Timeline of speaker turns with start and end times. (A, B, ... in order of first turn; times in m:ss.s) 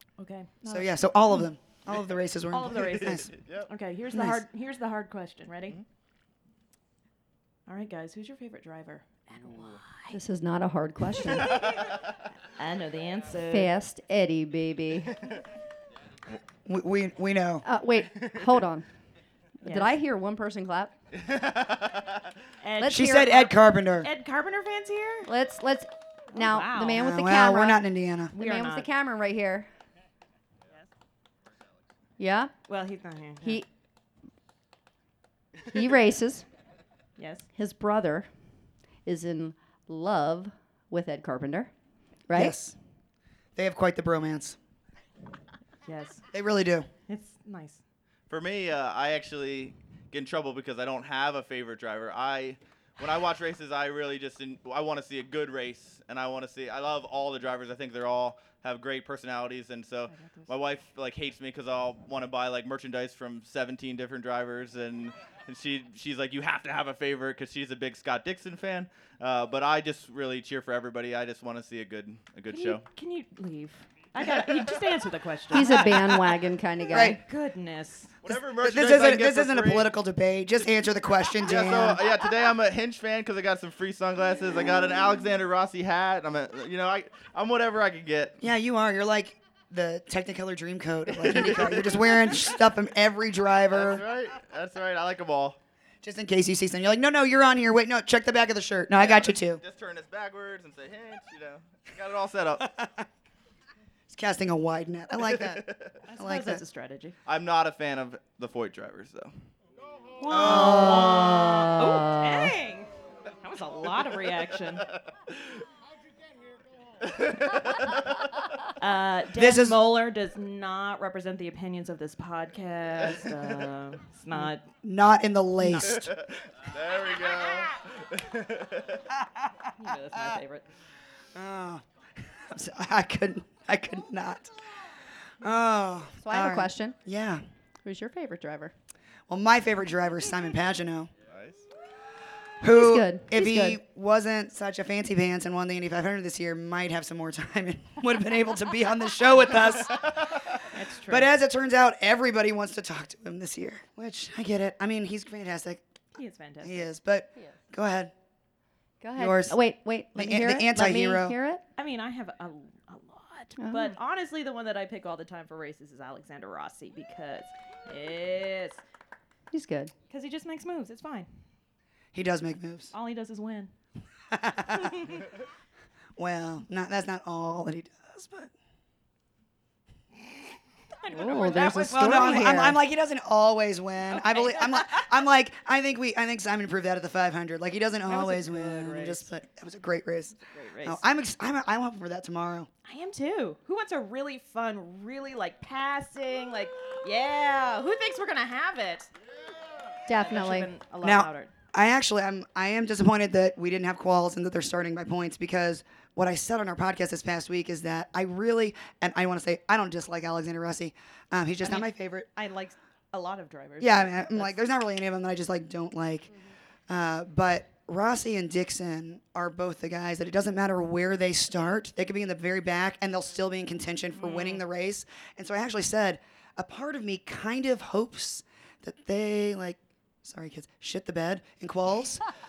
0:00.2-0:01.5 A
0:00.6-0:03.3 B
0:02.5-0:05.8 A
0:03.3-0:03.7 C
0:04.1-0:04.4 B
0:07.7-0:10.2 A
0:09.5-0:09.8 C
0:10.1-0:11.6 D
0:12.5-0:13.7 A
0:13.5-0:15.2 D
0:16.6-0:17.6 B
0:17.6-0:18.9 D
0:19.6-0:19.9 A
0:19.6-0:20.9 D
0:21.2-0:22.2 C
0:22.6-0:25.3 A
0:22.8-0:23.2 D
0:22.8-0:24.1 B
0:25.3-0:27.8 D
0:26.3-0:27.0 A
0:26.9-0:28.3 B
0:28.3-0:28.9 A
0:28.3-0:29.7 D
0:32.2-0:32.5 D
0:32.7-0:33.6 A
0:35.7-0:36.4 D
0:37.2-0:37.5 A
0:37.5-0:38.3 D
0:39.0-0:41.7 D
0:42.3-0:42.5 D
0:42.3-0:42.8 B
0:43.6-0:44.6 B
0:45.8-0:46.2 A
0:46.3-0:46.9 B
0:47.1-0:47.8 A
0:48.3-1:12.8 C
1:00.1-1:00.5 A
1:12.5-1:16.1 A
1:15.5-1:17.2 D
1:16.9-1:17.2 B
1:17.0-1:18.1 A
1:18.2-1:19.9 C
1:18.6-1:22.0 B
1:21.4-1:28.4 C
1:28.4-1:34.0 B
1:31.2-1:32.2 C
1:33.7-1:35.6 C
1:36.0-1:39.6 B
1:39.0-1:42.7 C
1:44.1-1:45.6 B
1:45.3-1:45.9 C
1:46.1-1:47.2 A
1:46.2-1:46.6 B
1:47.2-1:49.3 C
1:50.2-1:52.9 A
1:50.3-1:51.3 B
1:50.3-1:52.5 D
1:53.4-1:54.9 A
1:57.0-1:57.9 C
1:58.8-2:04.6 A
1:59.4-1:59.8 B
2:04.8-2:06.1 B
2:05.6-2:05.9 A
2:06.0-2:09.0 C
2:09.8-2:10.6 A
2:11.3-2:14.5 B
2:15.4-2:17.4 B
2:16.2-2:17.0 D
2:17.8-2:18.7 D
2:19.3-2:21.1 B
2:21.2-2:21.6 C
2:22.6-2:30.1 B
2:22.7-2:23.8 D
2:30.7-2:31.3 A
2:31.1-2:35.8 B
2:36.1-2:36.9 A
2:36.6-2:38.1 B
2:39.0-2:41.6 D
2:39.1-2:39.6 B
2:40.1-2:41.4 B
2:41.8-2:48.8 A
2:43.6-2:44.0 D
2:49.5-2:49.9 D
2:50.1-2:51.3 A
2:52.1-2:52.9 B
2:52.9-2:53.7 A
2:54.3-2:55.1 B
2:54.7-2:55.2 A
2:56.2-2:58.5 B
3:00.9-3:02.5 A
3:01.1-3:02.8 D
3:01.9-3:12.7 B
3:04.1-3:05.2 A
3:08.1-3:09.3 A
3:10.4-3:11.0 A
3:12.8-3:19.1 A
3:20.1-3:20.7 D
3:20.2-3:21.5 A
3:21.0-3:32.3 B
3:31.6-3:34.6 A
3:33.8-3:36.3 B
3:36.9-3:52.2 B
3:44.2-3:44.6 A